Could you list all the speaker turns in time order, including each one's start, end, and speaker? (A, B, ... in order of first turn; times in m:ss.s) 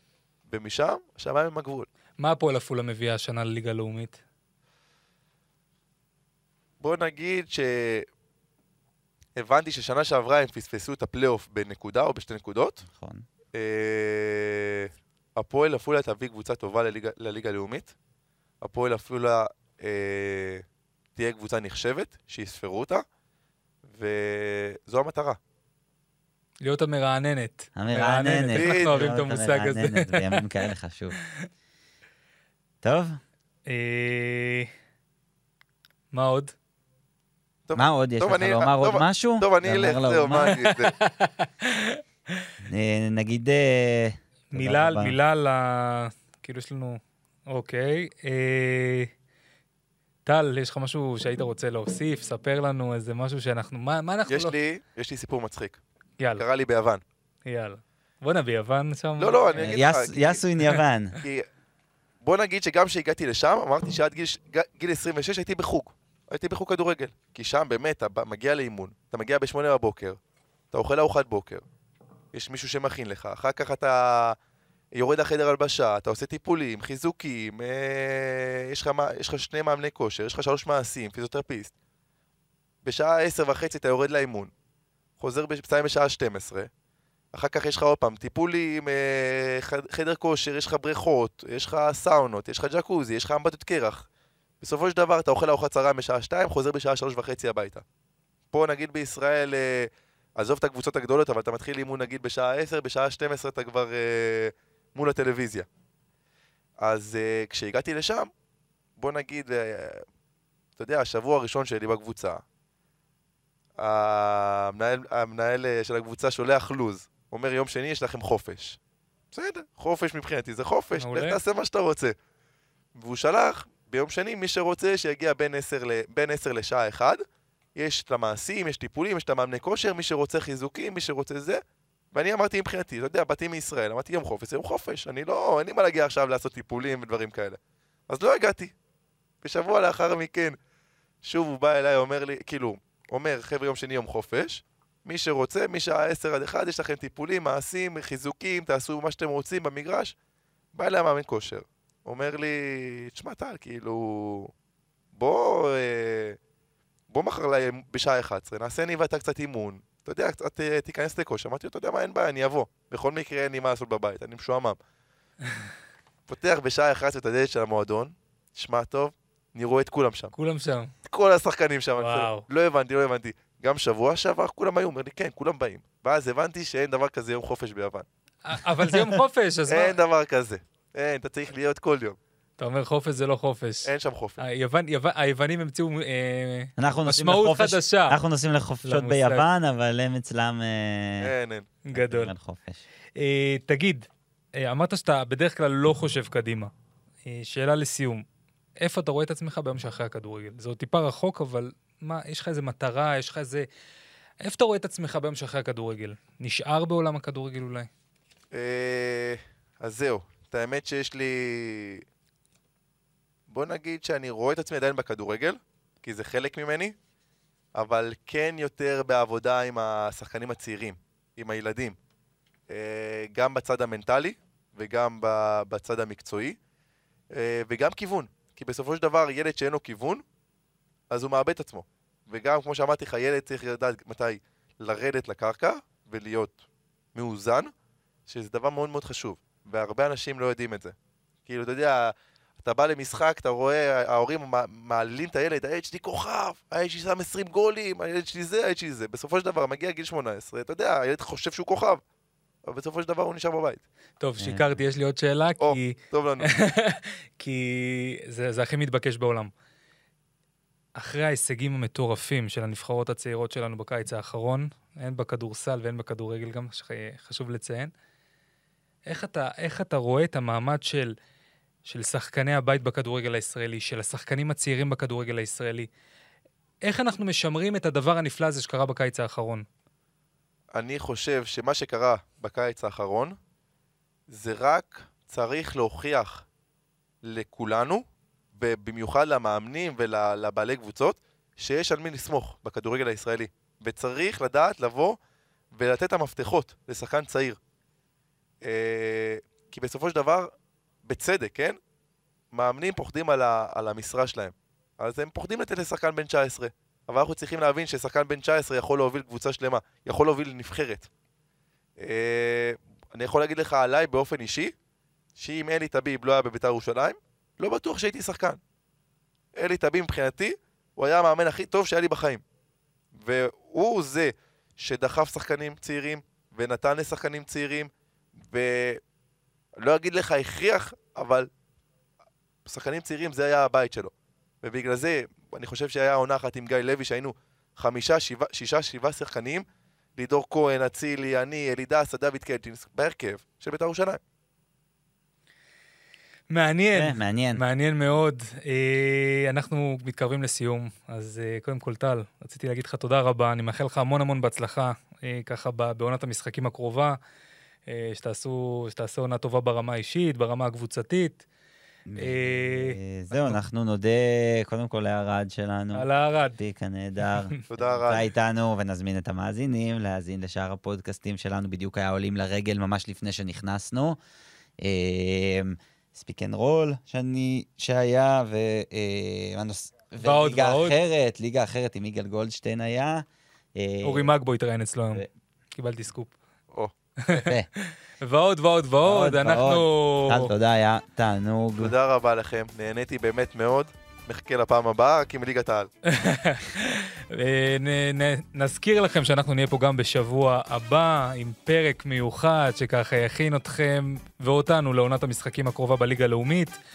0:00.5-0:01.9 A
0:02.2-0:04.2 B
0:06.8-0:08.1 A
0:09.4-0:12.9 A
0:12.9-0:13.3 C
0:13.5-0:17.9 A
0:18.6-0:20.6 A
0:21.2-0:23.0 A
0:23.9-0:25.4 A
0:26.6-0:30.5 B
0:27.8-0:31.2 C
0:28.6-0:29.1 A
0:32.8-0:33.2 C
0:33.7-0:34.7 B
0:36.1-0:36.5 B
0:37.7-0:40.9 A
0:37.8-0:40.6 C
0:40.3-0:42.4 B
0:42.6-0:45.2 C
0:44.5-0:49.1 B
0:50.3-0:54.6 B
0:54.3-0:55.8 A
0:56.2-0:56.4 B
0:56.4-0:57.0 A
0:57.5-0:59.8 B
0:59.2-1:00.4 A
0:59.6-1:01.2 C
1:01.2-1:01.5 A
1:02.2-1:10.2 A
1:10.7-1:11.6 A
1:12.3-1:14.4 A
1:14.9-1:21.7 A
1:22.8-1:24.5 A
1:25.2-1:26.7 A
1:27.3-1:34.1 A
1:34.6-1:37.8 A
1:38.5-1:45.7 A
1:46.8-1:48.3 A
1:49.0-1:50.0 A
1:50.8-1:52.4 A
1:53.8-1:58.8 A
1:59.3-2:02.2 A
2:01.0-2:01.4 B
2:03.0-2:07.2 A
2:07.8-2:11.6 A
2:12.1-2:18.7 A
2:19.4-2:20.6 A
2:21.2-2:30.2 A
2:30.7-2:34.5 A
2:35.1-2:36.4 A
2:37.1-2:44.8 A
2:46.3-2:50.3 A
2:50.3-2:50.9 B
2:51.0-2:58.1 A
2:52.0-2:52.5 B
2:58.4-3:00.0 B
2:58.9-2:59.2 C
2:59.7-3:02.2 A
3:02.6-3:08.2 B
3:03.8-3:04.4 A
3:06.8-3:11.3 C
3:08.8-3:09.5 B
3:11.2-3:11.7 A
3:11.9-3:12.3 B
3:11.9-3:12.8 C
3:13.2-3:14.0 B
3:14.6-3:16.7 B
3:17.2-3:18.2 B
3:18.8-3:23.7 B
3:24.4-3:27.9 B
3:28.5-3:32.0 A
3:33.5-3:37.0 A
3:37.8-3:42.0 A
3:42.7-3:46.6 A
3:47.3-3:50.2 A
3:51.1-3:56.6 A
3:57.2-3:57.7 A
3:58.3-4:01.0 A
4:01.5-4:12.0 A
4:12.6-4:13.8 A
4:14.2-4:19.5 B
4:15.6-4:16.5 A
4:21.0-4:27.9 B
4:29.1-4:31.1 B
4:31.9-4:35.9 B
4:36.8-4:39.6 B
4:40.7-4:43.4 A
4:44.3-4:46.4 A
4:47.2-4:55.2 A
4:55.8-4:57.6 A
4:58.6-5:00.5 A
5:01.0-5:01.8 A
5:02.5-5:11.1 A
5:12.0-5:14.7 A
5:15.4-5:18.6 A
5:19.6-5:22.4 A
5:23.2-5:27.9 A
5:28.5-5:29.0 A
5:29.8-5:31.5 A
5:32.7-5:39.6 A
5:40.2-5:44.2 A
5:46.5-5:57.2 B
5:46.9-5:47.6 C
5:57.9-6:01.4 B
6:02.1-6:14.2 C
6:02.2-6:03.6 B
6:06.0-6:06.6 B
6:07.7-6:08.3 A
6:14.8-6:24.3 C
6:20.2-6:21.0 B
6:24.0-6:26.3 B
6:27.3-6:30.5 B
6:27.3-6:27.7 C
6:29.0-6:31.9 C
6:31.8-6:35.9 A
6:36.1-6:46.8 B